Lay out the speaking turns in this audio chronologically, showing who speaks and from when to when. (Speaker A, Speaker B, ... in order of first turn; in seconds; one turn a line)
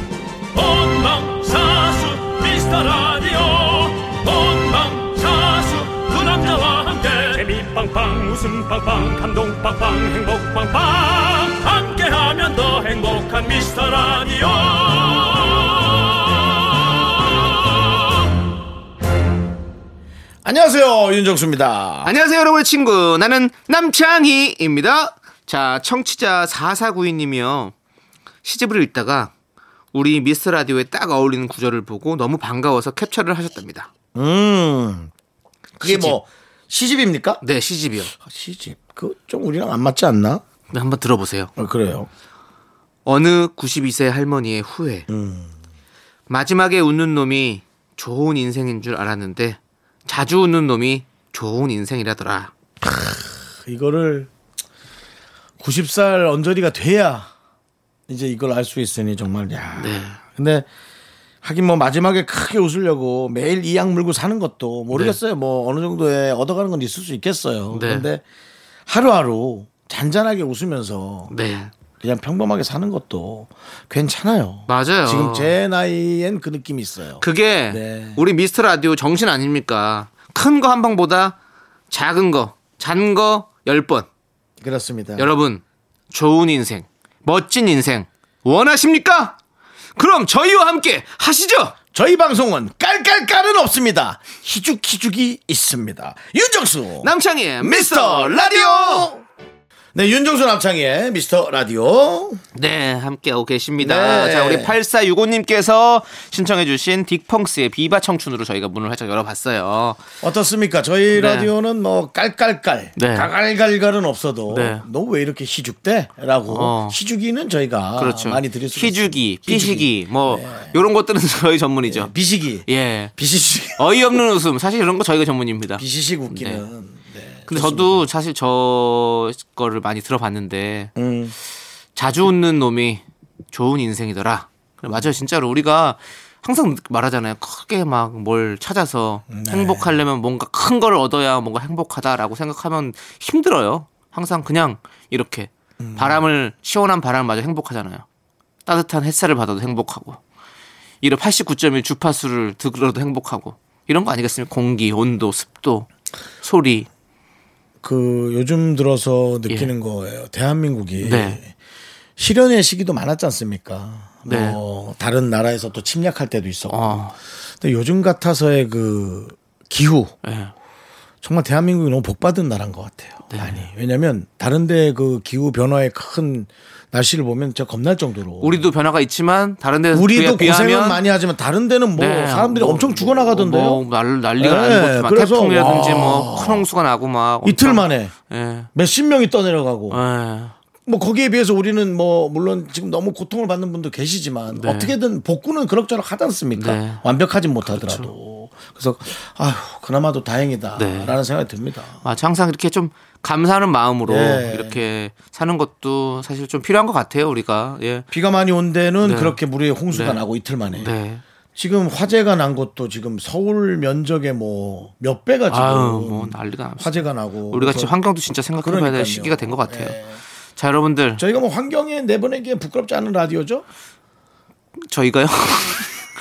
Speaker A: 0.5-18.0
Speaker B: 20.4-22.1
Speaker C: 22.0-27.7
Speaker C: 28.4-29.3
Speaker C: 29.9-33.9
Speaker B: 34.1-35.1
Speaker B: 35.8-37.4
Speaker C: 35.8-36.2
Speaker C: 37.4-38.1
Speaker B: 38.1-40.4
Speaker C: 40.7-41.5
Speaker B: 41.6-42.1
Speaker C: 43.0-45.1
Speaker B: 45.1-45.5
Speaker C: 46.3-52.5
Speaker B: 52.8-54.3
Speaker B: 55.6-57.3
Speaker B: 58.1-60.6
Speaker C: 59.8-60.2
Speaker B: 61.4-68.2
Speaker C: 64.9-65.2
Speaker C: 67.7-68.1
Speaker B: 68.9-71.3
Speaker C: 71.3-71.7
Speaker B: 72.0-78.2
Speaker C: 74.7-75.5
Speaker C: 77.2-81.3
Speaker C: 81.9-84.1
Speaker B: 84.6-85.3
Speaker C: 85.2-89.4
Speaker C: 90.0-91.7
Speaker B: 91.9-99.2
Speaker C: 97.0-99.1
Speaker B: 99.9-102.4
Speaker C: 102.5-110.0
Speaker B: 103.8-104.7
Speaker B: 110.2-120.8
Speaker C: 111.1-111.5
Speaker C: 113.0-113.3
Speaker C: 114.5-114.8
Speaker C: 116.5-117.0
Speaker C: 118.0-122.1
Speaker B: 121.8-124.2
Speaker C: 122.7-123.1
Speaker C: 123.8-126.6
Speaker B: 125.8-128.1
Speaker C: 127.5-130.9
Speaker B: 130.9-131.3
Speaker C: 131.9-148.0
Speaker B: 139.3-139.9
Speaker B: 145.8-146.2
Speaker C: 148.7-150.2
Speaker C: 151.0-155.9
Speaker C: 156.4-156.9
Speaker B: 157.8-161.5
Speaker C: 161.0-161.4
Speaker B: 162.2-167.0
Speaker C: 164.2-164.6
Speaker C: 166.7-167.2
Speaker B: 167.6-170.1
Speaker C: 170.2-170.5
Speaker B: 171.2-178.7
Speaker C: 173.3-173.7
Speaker C: 178.4-181.0
Speaker B: 179.9-183.8
Speaker C: 181.9-188.7
Speaker B: 184.4-186.7
Speaker B: 187.4-188.1
Speaker B: 188.7-190.0
Speaker C: 189.9-190.5
Speaker B: 190.8-202.0
Speaker C: 194.5-194.9
Speaker C: 196.6-197.0
Speaker C: 197.7-198.1
Speaker C: 200.8-201.2
Speaker C: 202.0-208.1
Speaker B: 204.1-204.8
Speaker B: 208.1-210.9
Speaker C: 209.0-209.4
Speaker C: 209.9-210.2
Speaker C: 210.7-211.2
Speaker B: 211.6-217.9
Speaker C: 215.5-220.0
Speaker B: 218.6-220.2
Speaker C: 220.6-221.2
Speaker B: 221.2-223.6
Speaker C: 224.9-225.9